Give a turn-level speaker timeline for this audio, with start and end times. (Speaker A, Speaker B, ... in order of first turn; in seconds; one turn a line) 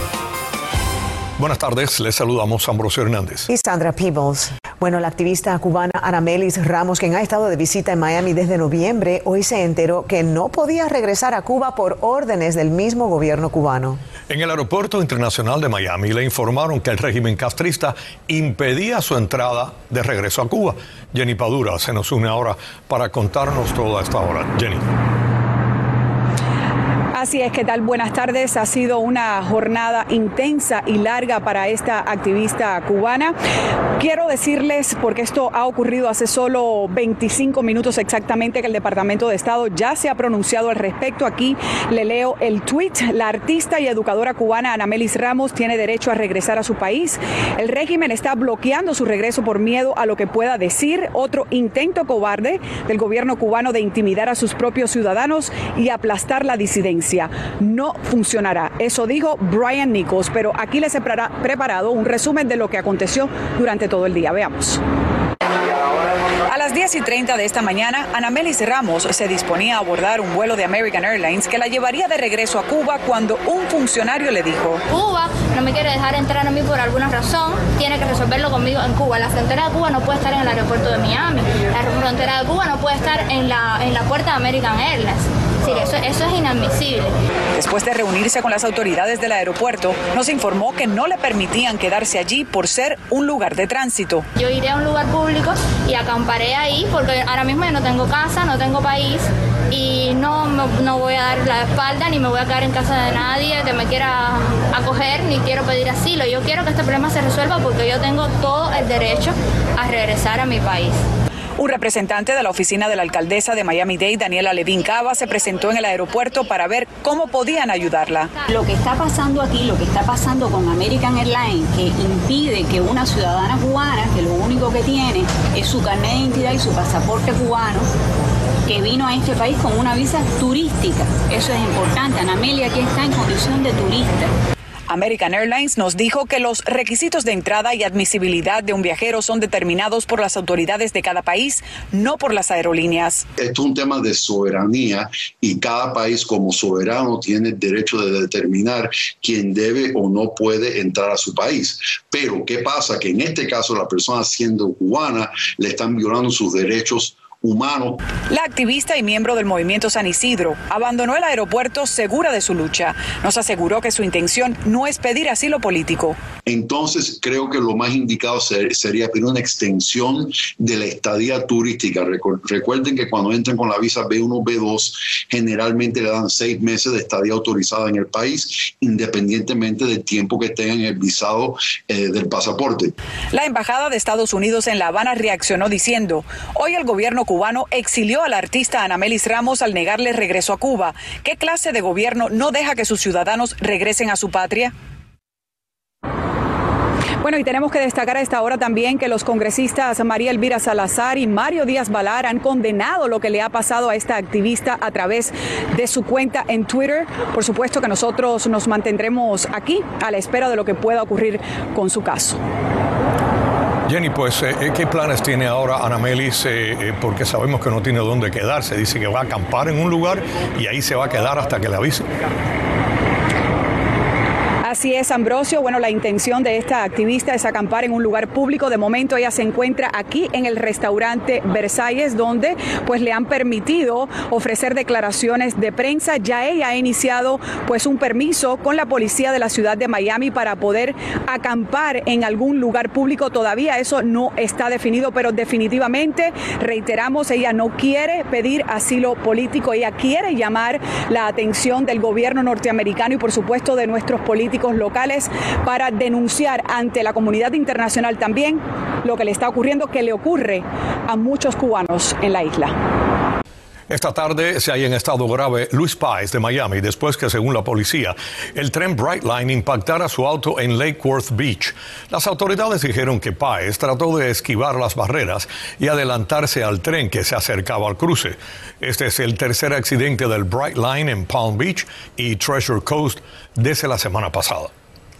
Speaker A: 1.4-3.5
Speaker B: 3.5-14.0
Speaker A: 14.3-24.8
Speaker C: 27.1-33.3
Speaker C: 34.0-64.8
Speaker C: 66.5-74.8
Speaker D: 74.9-87.1
Speaker C: 87.6-94.2
Speaker D: 94.4-111.0
Speaker C: 111.6-118.3
Speaker E: 118.5-127.9
Speaker E: 128.7-134.3
Speaker C: 134.9-143.2
Speaker F: 143.4-158.0
Speaker C: 158.3-166.2
Speaker F: 166.5-182.9
Speaker C: 183.3-194.7
Speaker C: 197.2-212.4
Speaker A: 213.9-222.1
Speaker C: 224.6-262.8
Speaker A: 263.9-284.7